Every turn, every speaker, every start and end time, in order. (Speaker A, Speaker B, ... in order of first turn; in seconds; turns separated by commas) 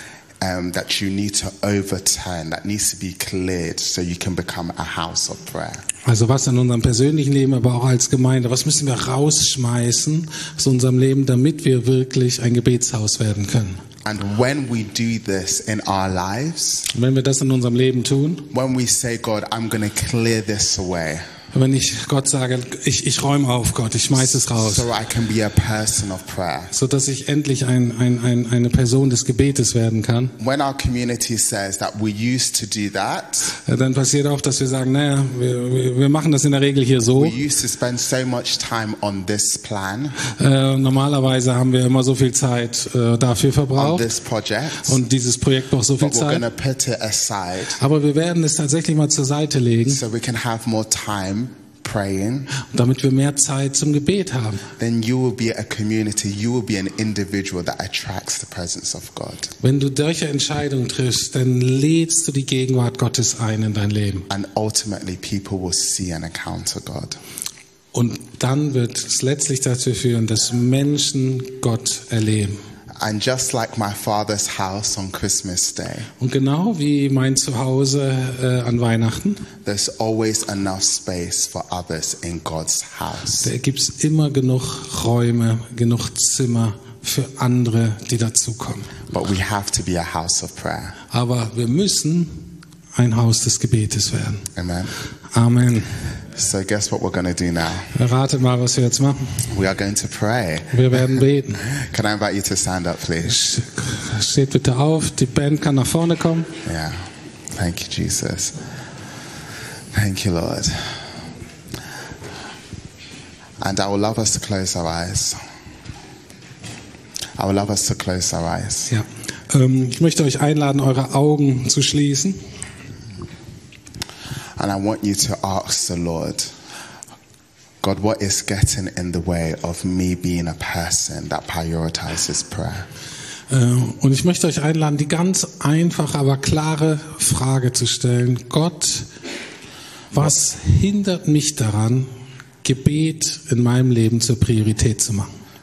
Speaker A: 0.4-5.8, Speaker B: 6.0-13.8, Speaker A: 14.0-16.9, Speaker B: 16.9-18.5, Speaker A: 18.5-21.2, Speaker B: 21.5-24.9, Speaker A: 24.2-26.7, Speaker B: 26.7-30.3, Speaker A: 30.4-33.5, Speaker B: 33.5-37.4, Speaker A: 37.1-40.2, Speaker B: 40.2-44.1, Speaker A: 43.8-45.0, Speaker B: 44.8-46.4, Speaker A: 46.0-47.8, Speaker B: 47.8-50.0, Speaker A: 49.9-52.5, Speaker B: 52.6-54.6, Speaker A: 54.8-59.5, Speaker B: 59.6-64.3, Speaker A: 64.3-67.2, Speaker B: 67.9-72.6, Speaker A: 73.0-76.1, Speaker B: 76.2-79.5, Speaker A: 79.6-83.5, Speaker B: 83.4-89.0, Speaker A: 89.1-91.0, Speaker B: 91.1-94.5, Speaker A: 94.5-94.9, Speaker B: 95.3-96.0, Speaker A: 96.3-97.9, Speaker B: 97.9-99.4, Speaker A: 99.5-101.0, Speaker B: 100.7-101.6, Speaker A: 101.6-103.4, Speaker B: 103.2-106.5, Speaker A: 106.6-108.6, Speaker A: 109.9-111.0, Speaker A: 113.6-115.4, Speaker A: 117.4-118.9, Speaker B: 118.9-122.4, Speaker A: 124.6-126.5, Speaker A: 127.8-132.9, Speaker B: 133.5-139.1, Speaker B: 140.1-142.1, Speaker B: 142.6-145.3